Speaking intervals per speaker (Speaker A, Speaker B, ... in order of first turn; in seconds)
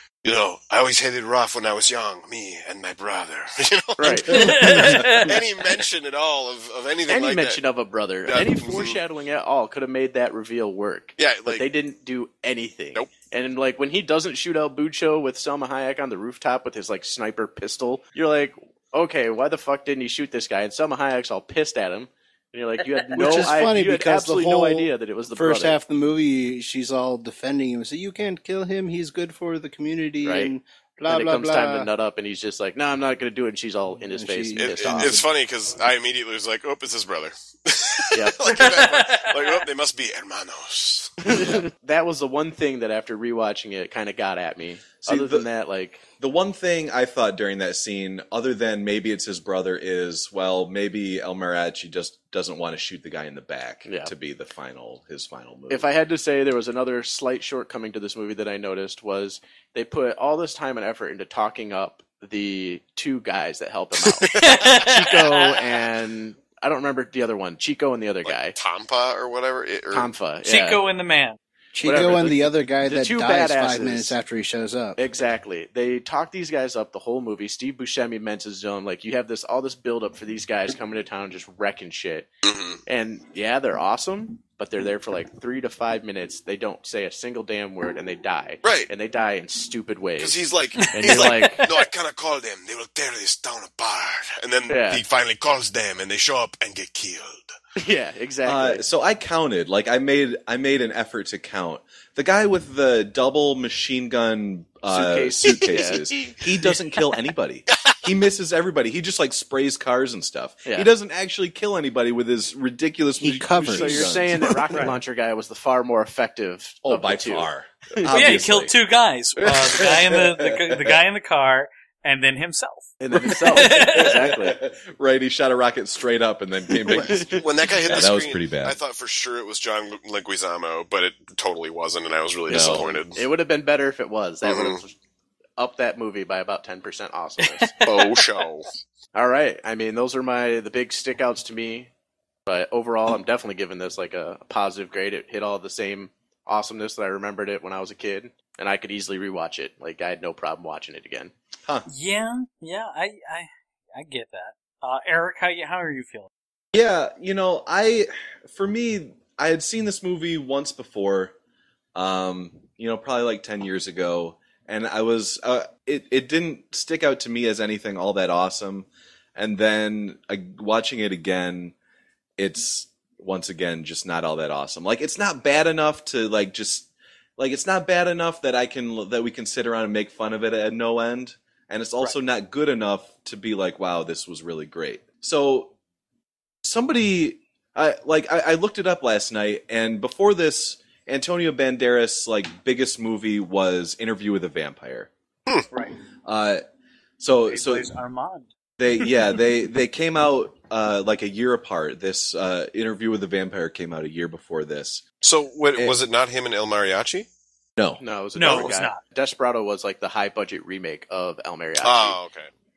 Speaker A: 0.2-7.6, 8.3-9.0, 11.2-11.7, 34.6-41.2, 68.2-70.1, 82.4-82.8, 88.6-88.9, 90.2-97.5, 127.2-133.2, 134.4-134.8, 137.8-138.7, 205.2-207.3, 211.8-212.5
Speaker B: 4.0-5.3, 7.1-25.8, 30.2-30.5, 31.1-35.2, 41.2-46.0, 53.9-54.1, 55.7-64.3, 64.8-68.6, 69.9-70.8, 71.8-74.2, 75.0-82.3, 82.9-91.7, 94.7-95.0, 97.8-98.8, 104.9-106.1, 113.7-118.4, 123.0-124.6, 126.9-127.4, 132.5-134.9, 135.6-137.7, 139.1-141.9, 142.5-151.3, 208.0-212.2
Speaker C: 4.3-5.3, 38.5-39.6, 64.4-65.6, 70.4-71.4, 90.8-91.8, 118.1-122.9, 123.6-124.1, 137.4-137.7, 151.9-156.3, 197.5-198.5, 208.3-209.0
Speaker D: 4.4-5.0, 45.1-45.5, 46.2-55.9, 98.5-114.5, 116.8-118.7, 119.4-121.0, 123.6-127.3, 127.9-128.8, 132.5-132.8, 156.7-161.3, 161.9-171.7, 172.4-185.7, 186.6-195.1, 196.2-196.6, 197.2-197.9, 198.8-205.0
Speaker E: 23.1-31.9, 34.1-35.3, 71.7-75.0, 113.2-114.9